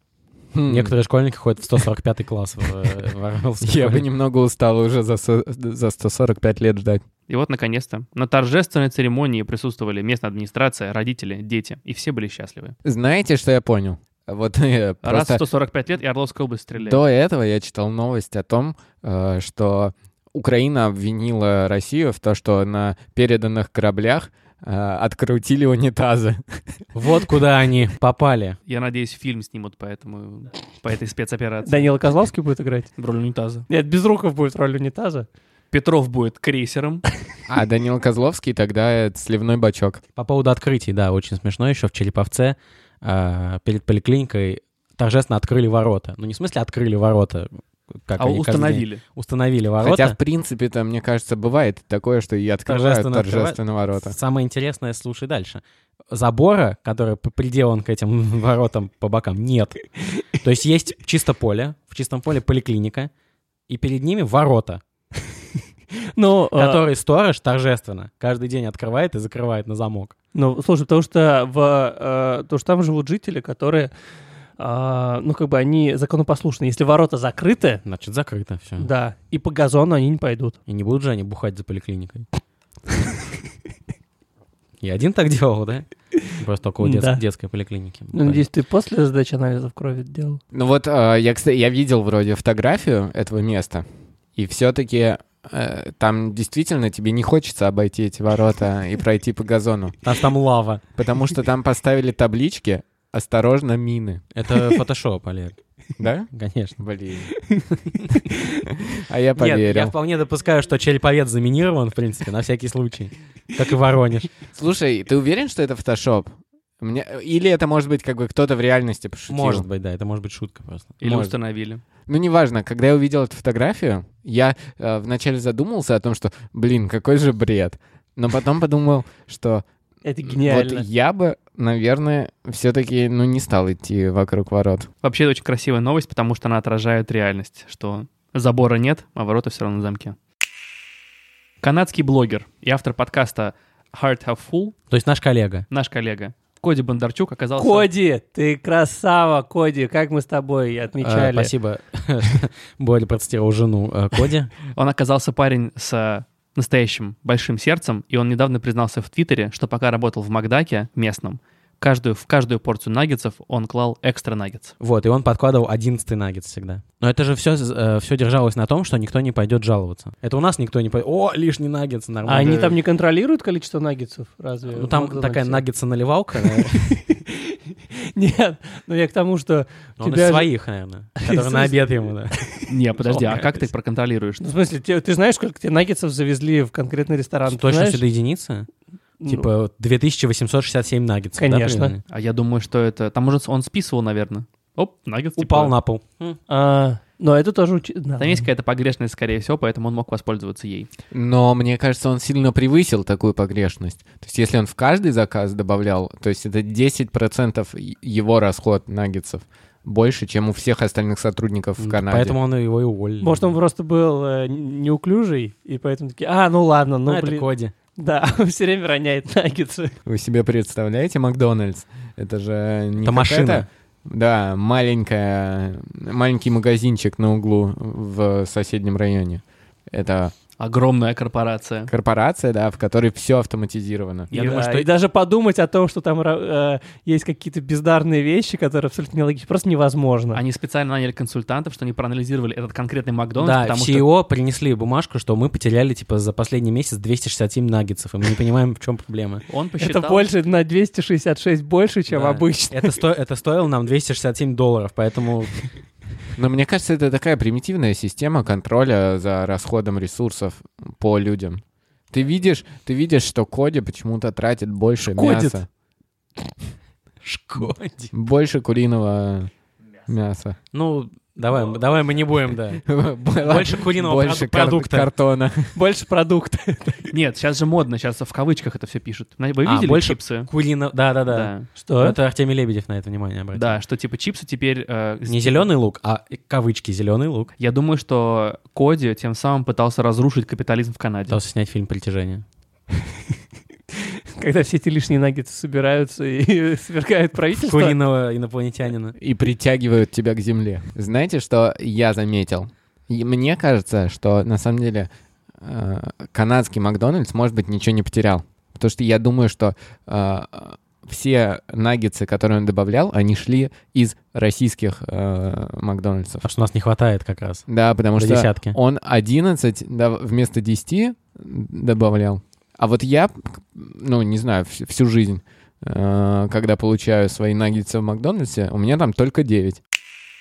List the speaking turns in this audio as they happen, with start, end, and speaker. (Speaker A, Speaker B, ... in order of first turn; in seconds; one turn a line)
Speaker A: 0.5-0.9
Speaker B: 0.7-4.1
Speaker A: 3.6-7.0
Speaker C: 7.3-12.7
Speaker A: 12.8-15.4
Speaker C: 15.0-17.0
Speaker A: 16.8-26.4
Speaker B: 26.9-28.6
Speaker C: 28.7-31.9
Speaker D: 31.6-32.9
Speaker C: 33.0-33.7
Speaker D: 33.7-35.3
Speaker C: 35.7-37.0
Speaker A: 37.5-40.0
Speaker B: 40.1-50.1
Speaker C: 48.2-49.0
Speaker A: 49.8-54.1
Speaker B: 52.6-59.8
Speaker B: 60.3-63.1
Speaker B: 63.7-64.8
Speaker D: 66.1-66.8
Speaker B: 66.5-70.1
Speaker D: 70.3-73.9
Speaker D: 74.6-77.8
Speaker B: 77.8-78.9
Speaker D: 78.8-80.6
Speaker B: 80.7-82.2
Speaker B: 84.8-85.8
Speaker B: 86.4-88.4
Speaker D: 86.8-87.2
Speaker D: 88.1-90.4
Speaker A: 90.5-100.0
Speaker B: 100.0-100.8
Speaker A: 101.0-104.2
Speaker B: 104.3-105.5
Speaker A: 106.0-107.3
Speaker B: 106.3-106.8
Speaker A: 108.5-109.9
Speaker B: 109.4-114.3
Speaker A: 114.5-116.3
Speaker A: 116.8-119.7
Speaker B: 119.3-121.0
Speaker C: 121.0-121.8
Speaker A: 121.0-121.3
Speaker A: 122.1-129.6
Speaker D: 130.0-130.8
Speaker A: 130.3-134.9
Speaker C: 135.0-140.2
Speaker C: 141.6-144.7
Speaker B: 144.9-145.7
Speaker C: 145.7-147.9
Speaker D: 147.6-151.5
Speaker B: 151.0-154.5
Speaker C: 154.7-164.7
Speaker B: 164.8-172.8
Speaker D: 172.2-175.7
Speaker B: 174.7-177.0
Speaker D: 176.4-180.5
Speaker B: 180.0-182.4
Speaker D: 181.2-181.7
Speaker C: 182.7-184.4
Speaker B: 183.0-183.5
Speaker D: 184.4-188.0
Speaker B: 187.4-188.7
Speaker D: 189.2-189.5
Speaker B: 189.2-192.0
Speaker D: 191.4-191.9
Speaker C: 192.1-195.7
Speaker B: 195.4-196.4
Speaker D: 196.5-198.5
Speaker C: 198.2-200.9
Speaker A: 201.1-212.3
Speaker B: 211.8-213.5
Speaker D: 213.2-219.9
Speaker B: 217.1-217.7
Speaker A: 220.0-230.3
Speaker B: 223.0-223.7
Speaker C: 230.6-231.9
Speaker A: 231.9-234.3
Speaker C: 234.3-234.6
Speaker B: 234.3-234.9
Speaker D: 234.3-240.4
Speaker C: 240.3-244.1
Speaker B: 243.4-249.4
Speaker C: 249.5-250.3
Speaker D: 249.8-253.0
Speaker B: 252.1-255.6
Speaker A: 256.4-265.7
Speaker D: 265.0-265.6
Speaker B: 267.2-268.1
Speaker A: 268.1-269.5
Speaker A: 270.1-270.6
Speaker B: 270.7-272.8
Speaker A: 272.9-275.8
Speaker B: 273.4-275.1
Speaker D: 275.7-277.1
Speaker C: 277.1-280.5
Speaker B: 279.6-283.8
Speaker C: 281.3-281.7
Speaker D: 281.8-282.2
Speaker C: 283.5-285.7
Speaker B: 285.3-287.5
Speaker C: 287.6-291.4
Speaker B: 291.3-292.4
Speaker D: 294.3-298.0
Speaker B: 297.6-299.1
Speaker A: 299.2-305.1
Speaker A: 305.6-316.4
Speaker B: 316.4-317.6
Speaker A: 317.7-329.8
Speaker B: 318.1-318.8